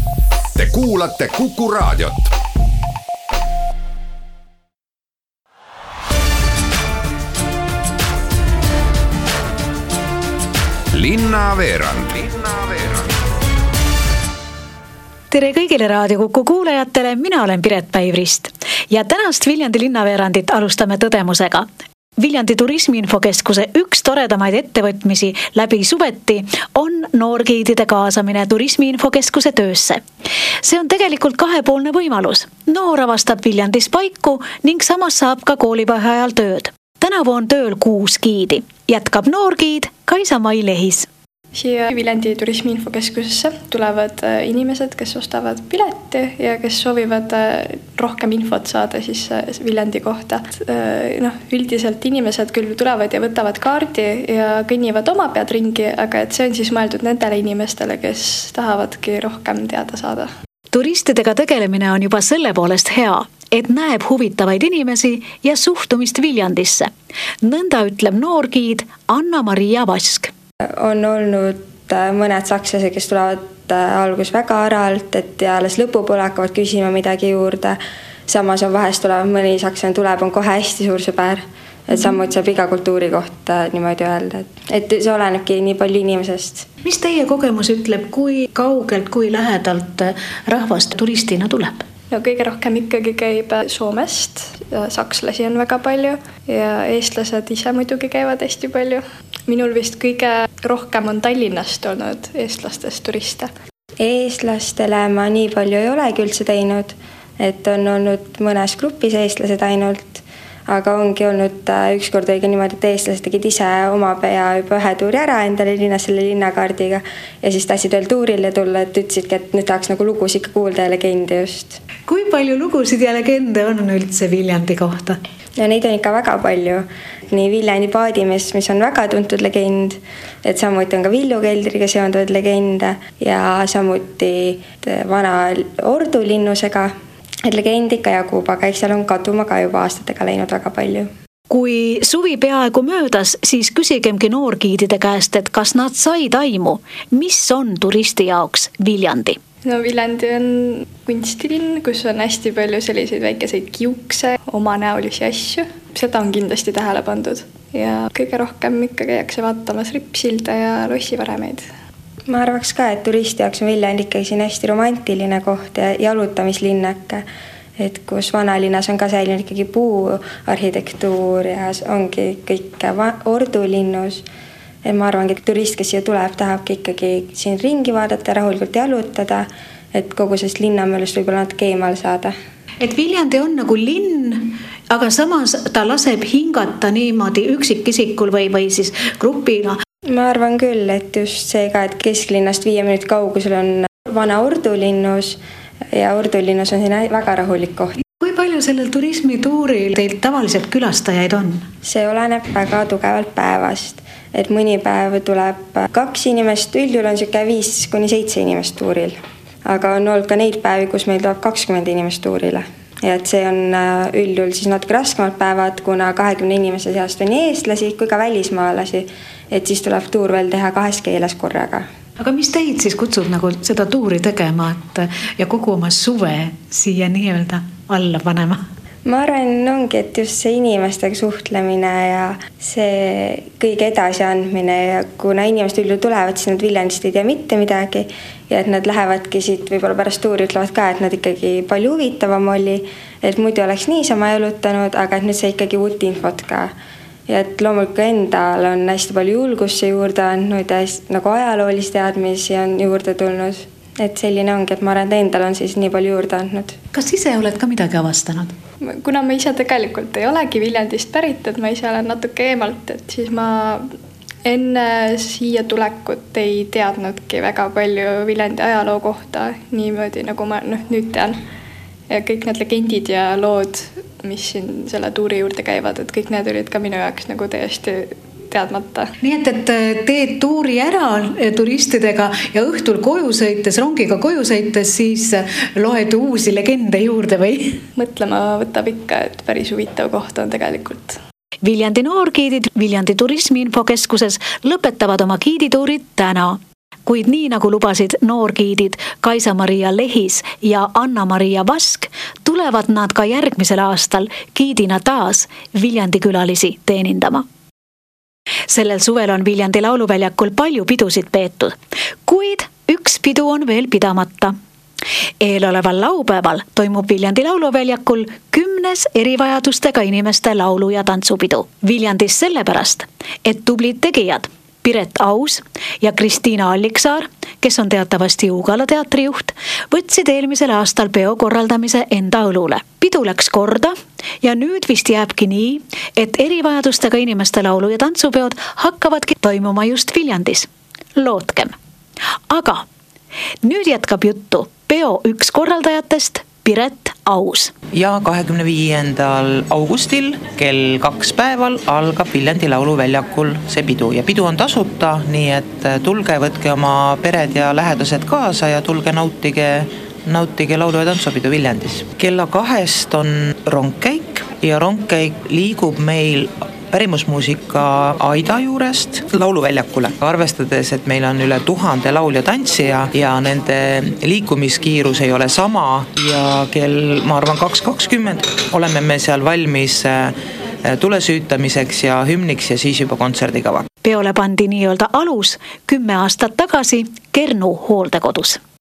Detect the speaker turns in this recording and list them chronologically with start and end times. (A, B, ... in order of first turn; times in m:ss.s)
0:00.6-0:02.3 A
0:10.9-0:13.0 A
0:15.3-0:21.7 B
0:22.2-0:30.0 B
0:30.6-0:41.1 B
0:41.5-1:00.3 C
1:00.7-1:06.9 B
1:07.4-1:10.3 B
1:10.8-1:26.6 D
1:26.8-1:31.8 B
1:32.1-1:43.5 C
1:44.0-2:01.8 D
2:02.1-2:05.2 B
2:05.6-2:16.9 D
2:17.4-2:21.1 D
2:21.5-2:29.4 B
2:29.6-2:41.6 C
2:42.3-2:47.2 D
2:47.8-2:54.2 D
2:54.8-3:02.3 D
3:02.8-3:09.8 B
3:10.1-3:15.4 D
3:15.9-3:18.0 D
3:18.2-3:21.7 B
3:21.8-3:41.8 D
3:42.2-3:48.6 B
3:49.0-4:06.7 D
4:07.3-4:16.7 D
4:16.9-4:18.5 B
4:18.8-4:23.8 C
4:24.4-4:31.4 C
4:32.1-4:39.1 C
4:39.2-4:47.8 B
4:48.0-4:51.2 C
4:51.6-5:07.4 B
5:08.7-5:14.5 B
5:15.4-5:41.7 B
5:42.5-5:42.8 B
5:43.6-5:47.7 B
5:47.9-6:23.9 E
6:24.0-6:28.6 B